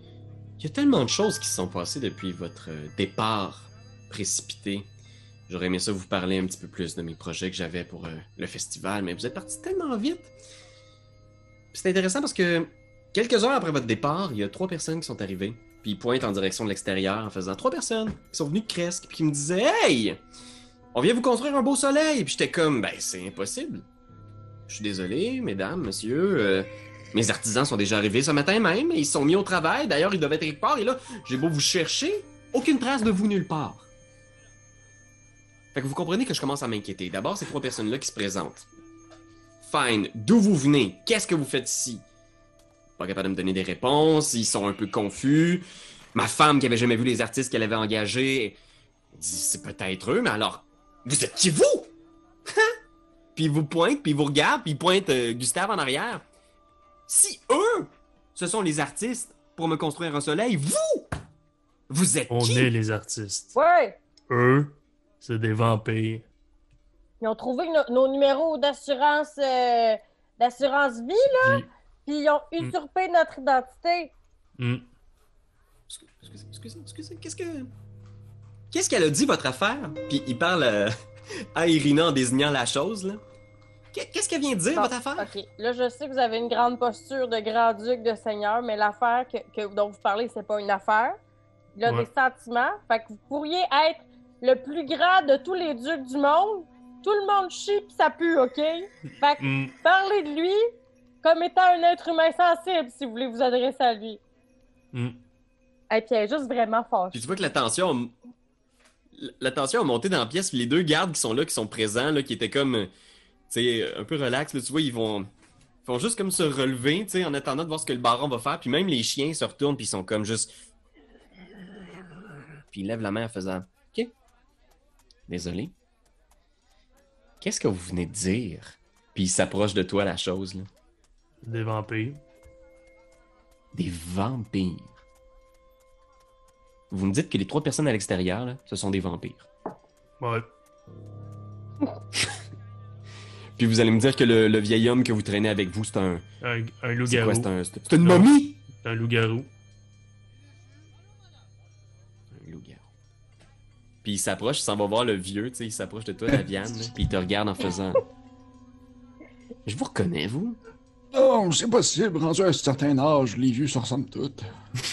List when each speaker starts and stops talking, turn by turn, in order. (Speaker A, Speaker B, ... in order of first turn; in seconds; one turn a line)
Speaker A: 0.6-4.9
Speaker A: 5.5-10.3
Speaker A: 11.7-20.2
Speaker A: 20.9-23.9
Speaker A: 24.7-33.9
Speaker A: 35.7-38.6
Speaker A: 39.6-42.0
Speaker A: 43.0-45.6
Speaker A: 46.1-48.6
Speaker A: 49.1-51.9
Speaker A: 52.5-52.8
Speaker A: 53.4-56.2
Speaker A: 57.1-61.1
Speaker A: 61.9-62.7
Speaker B: 62.3-63.6
Speaker C: 63.5-64.0
Speaker B: 64.3-66.2
Speaker C: 67.2-74.1
Speaker B: 71.4-71.7
Speaker B: 74.6-74.8
Speaker A: 75.9-77.7
Speaker A: 78.7-81.0
Speaker A: 81.5-83.2
Speaker A: 83.9-85.3
Speaker C: 84.7-91.2
Speaker C: 91.8-100.6
Speaker B: 99.4-99.7
Speaker C: 101.2-104.2
Speaker B: 104.9-105.2
Speaker C: 105.9-107.3
Speaker A: 107.1-108.1
Speaker A: 109.1-112.9
Speaker A: 113.5-115.3
Speaker A: 115.8-120.5
Speaker A: 122.7-124.1
Speaker A: 125.3-125.7
Speaker A: 127.4-130.7
Speaker B: 131.4-132.2
Speaker A: 133.7-135.0
Speaker A: 136.9-139.5
Speaker B: 140.2-140.5
Speaker A: 143.6-146.2
Speaker B: 146.4-147.5
Speaker A: 147.1-148.6
Speaker B: 148.0-149.5
Speaker A: 152.3-152.8
Speaker A: 154.0-158.0
Speaker A: 159.7-160.6
Speaker D: 161.1-164.5